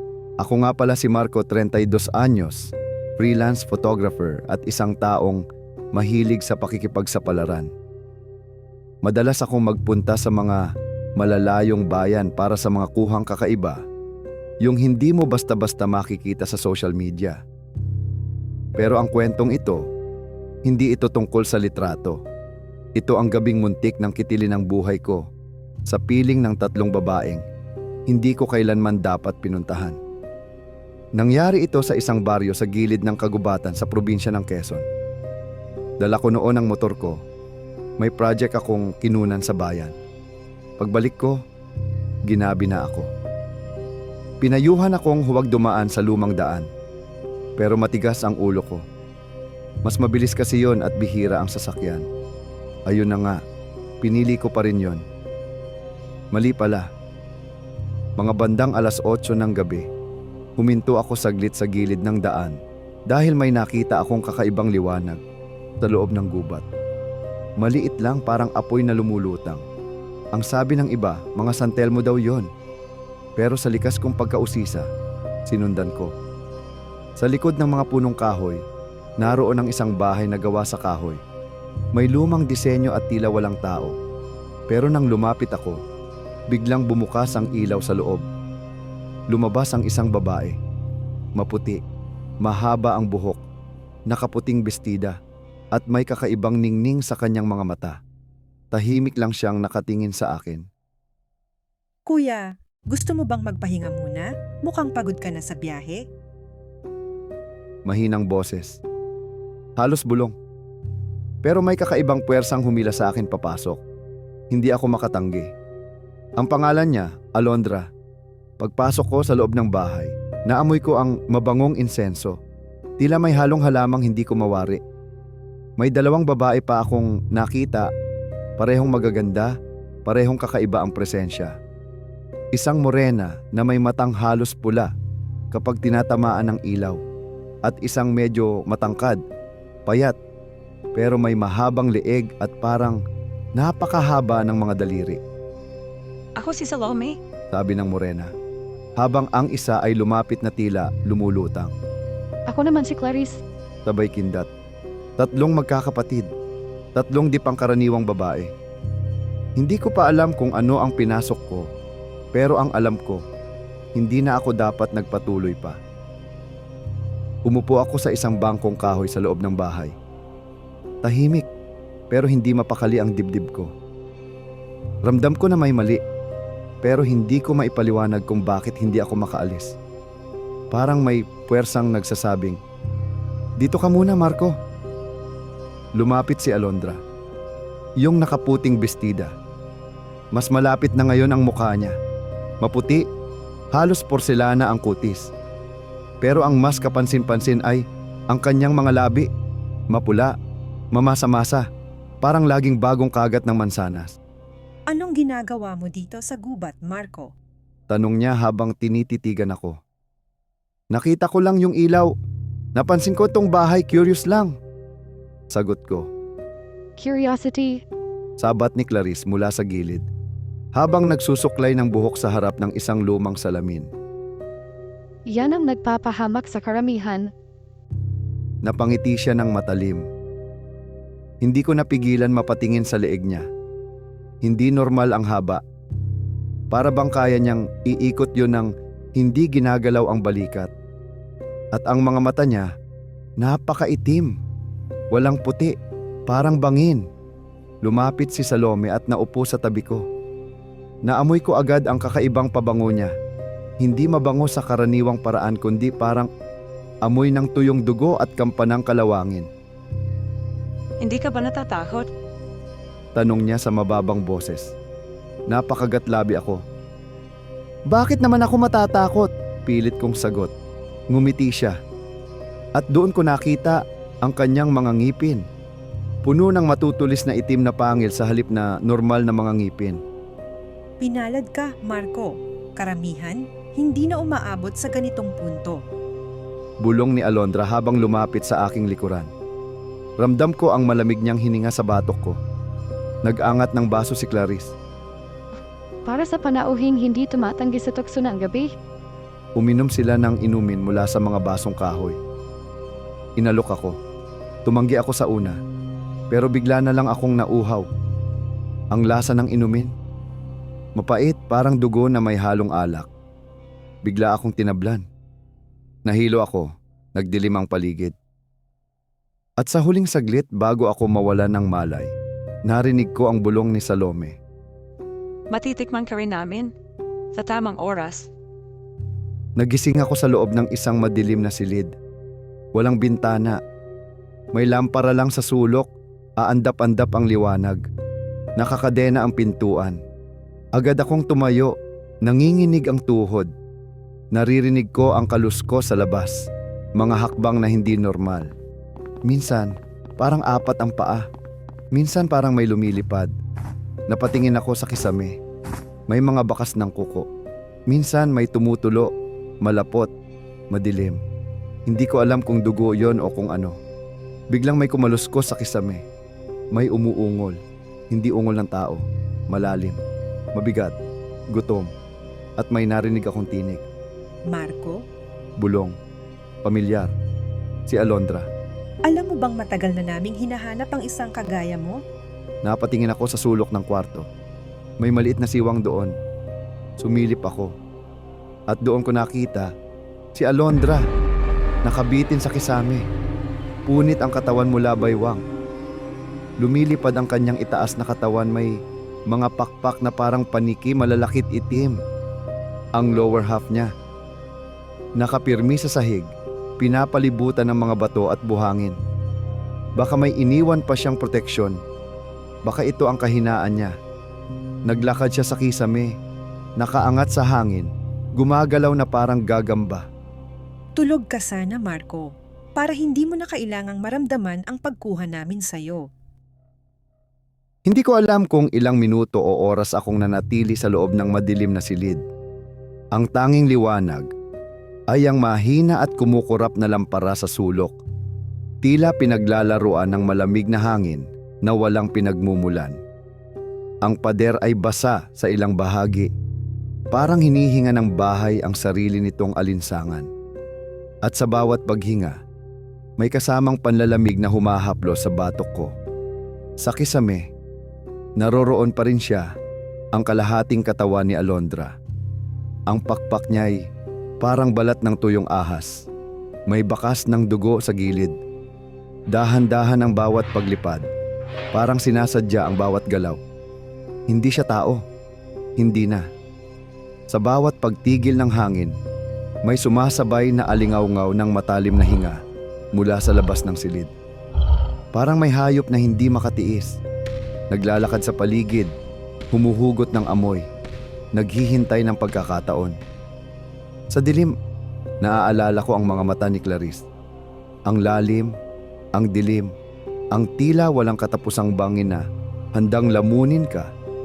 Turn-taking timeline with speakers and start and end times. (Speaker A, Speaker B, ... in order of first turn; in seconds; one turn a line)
Speaker A: 0.4-7.7
Speaker A: 9.0-10.7
Speaker A: 11.2-13.8
Speaker A: 14.6-17.4
Speaker A: 18.8-19.9
Speaker A: 20.7-22.2
Speaker A: 23.0-25.3
Speaker A: 25.9-27.5
Speaker A: 28.1-30.0
Speaker A: 31.2-34.9
Speaker A: 36.0-37.2
Speaker A: 38.0-40.0
Speaker A: 40.8-41.4
Speaker A: 42.3-43.1
Speaker A: 44.4-46.7
Speaker A: 47.6-48.9
Speaker A: 49.9-52.1
Speaker A: 52.9-53.4
Speaker A: 54.0-55.0
Speaker A: 56.3-56.9
Speaker A: 58.2-59.9
Speaker A: 60.6-65.2
Speaker A: 65.8-66.7
Speaker A: 67.6-69.6
Speaker A: 70.3-72.5
Speaker A: 73.4-74.9
Speaker A: 75.5-76.1
Speaker A: 77.2-78.6
Speaker A: 79.2-81.2
Speaker A: 82.0-84.0
Speaker A: 84.7-85.8
Speaker A: 86.5-88.2
Speaker A: 89.3-90.6
Speaker A: 91.4-91.8
Speaker A: 92.4-93.4
Speaker A: 94.1-95.2
Speaker A: 95.7-98.0
Speaker A: 98.7-100.7
Speaker B: 102.1-106.0
Speaker A: 107.9-108.8
Speaker A: 109.8-110.4
Speaker A: 111.4-113.8
Speaker A: 114.5-115.5
Speaker A: 116.4-117.9
Speaker A: 118.6-122.4
Speaker A: 123.0-124.8
Speaker A: 125.8-127.9
Speaker A: 128.6-131.6
Speaker A: 132.5-134.9
Speaker A: 135.5-137.0
Speaker A: 137.6-139.2
Speaker A: 139.9-140.2
Speaker A: 140.9-143.0
Speaker A: 143.6-145.2
Speaker C: 146.4-147.2
Speaker A: 147.5-148.3
Speaker A: 149.0-151.7
Speaker D: 152.5-153.4
Speaker A: 153.9-154.5
Speaker A: 155.2-156.3
Speaker A: 157.0-158.5
Speaker A: 159.6-161.7
Speaker A: 162.3-163.2
Speaker A: 164.0-165.8
Speaker A: 167.4-170.0
Speaker A: 171.0-171.5
Speaker A: 172.1-173.7
Speaker A: 175.1-176.0
Speaker A: 176.8-179.8
Speaker A: 180.7-182.6
Speaker A: 183.6-184.6
Speaker A: 186.0-187.0
Speaker A: 188.0-189.3
Speaker A: 190.3-192.0
Speaker A: 192.6-193.0
Speaker A: 193.7-195.3
Speaker A: 196.2-199.3
Speaker A: 199.9-200.3
Speaker A: 200.9-201.7
Speaker A: 202.2-204.2
Speaker B: 204.9-207.3
Speaker A: 207.9-209.8
Speaker A: 210.9-212.1
Speaker A: 212.8-214.6
Speaker A: 215.5-216.1
Speaker D: 217.0-217.8
Speaker A: 218.4-220.1
Speaker A: 220.8-223.9
Speaker D: 225.3-227.3
Speaker A: 228.7-230.1
Speaker A: 231.4-233.5
Speaker A: 234.4-235.6
Speaker A: 236.7-240.7
Speaker A: 241.7-242.7
Speaker A: 243.4-244.4
Speaker A: 245.1-245.8
Speaker A: 246.3-247.1
Speaker A: 247.8-250.1
Speaker A: 251.1-253.2
Speaker A: 253.8-256.3
Speaker A: 257.1-259.5
Speaker C: 261.0-262.1
Speaker A: 263.1-264.8
Speaker A: 265.5-266.6
Speaker A: 267.9-270.5
Speaker A: 271.1-271.8
Speaker A: 272.8-275.4
Speaker A: 276.2-280.0
Speaker B: 281.0-285.8
Speaker A: 286.8-289.3
Speaker A: 290.2-292.4
Speaker A: 293.2-294.8
Speaker D: 296.1-298.7
Speaker A: 299.6-302.2
Speaker A: 303.4-304.0
Speaker A: 304.6-305.6
Speaker A: 306.3-307.9
Speaker A: 308.9-309.9
Speaker A: 311.0-313.1
Speaker A: 314.0-315.1
Speaker A: 316.1-318.1
Speaker A: 319.6-322.1
Speaker A: 322.7-324.4
Speaker C: 325.5-326.7
Speaker C: 327.3-328.3
Speaker A: 329.6-332.0
Speaker A: 332.8-333.6
Speaker A: 334.5-337.8
Speaker A: 338.6-340.0
Speaker A: 340.8-343.5
Speaker A: 344.3-348.5
Speaker A: 349.3-351.3
Speaker A: 351.9-353.3
Speaker A: 354.1-355.4
Speaker A: 356.1-357.3
Speaker A: 357.9-359.1
Speaker A: 359.6-360.1
Speaker A: 360.7-361.2
Speaker A: 361.9-363.8
Speaker A: 364.5-366.1
Speaker A: 366.7-367.6
Speaker A: 368.1-370.0
Speaker A: 370.6-370.9
Speaker A: 371.5-371.9
Speaker A: 372.6-373.9
Speaker B: 374.5-375.0
Speaker A: 375.6-376.0
Speaker A: 376.6-377.1
Speaker A: 377.9-378.5
Speaker B: 379.1-382.0
Speaker A: 382.6-384.3
Speaker A: 385.0-386.1
Speaker A: 387.0-387.7
Speaker A: 388.7-389.7
Speaker A: 390.4-391.1
Speaker A: 391.9-393.1
Speaker A: 393.9-395.4
Speaker A: 396.6-398.8
Speaker A: 399.3-402.0
Speaker A: 403.0-403.9
Speaker A: 405.2-409.0
Speaker A: 410.0-411.8
Speaker A: 412.6-413.9
Speaker A: 414.9-416.1
Speaker A: 416.8-420.1
Speaker B: 421.0-426.1
Speaker A: 427.9-432.2
Speaker A: 433.1-434.3
Speaker A: 435.1-438.0
Speaker A: 438.8-443.0
Speaker A: 444.0-446.3
Speaker A: 447.1-450.3
Speaker A: 451.2-452.4
Speaker A: 453.2-455.9
Speaker A: 456.8-457.5
Speaker A: 458.4-459.6
Speaker A: 460.1-462.0
Speaker A: 462.9-463.9
Speaker A: 464.4-466.1
Speaker A: 466.7-468.4
Speaker A: 469.3-471.1
Speaker A: 471.7-473.4
Speaker A: 474.3-475.0
Speaker A: 475.8-476.3
Speaker A: 477.3-479.0
Speaker A: 479.6-482.4
Speaker A: 482.9-484.1
Speaker A: 485.1-487.0
Speaker A: 487.7-488.9
Speaker A: 489.5-490.7
Speaker A: 491.4-493.0
Speaker A: 494.1-494.5
Speaker A: 495.2-497.1
Speaker A: 497.9-498.6
Speaker A: 499.1-499.7
Speaker A: 500.3-502.2
Speaker A: 502.8-503.9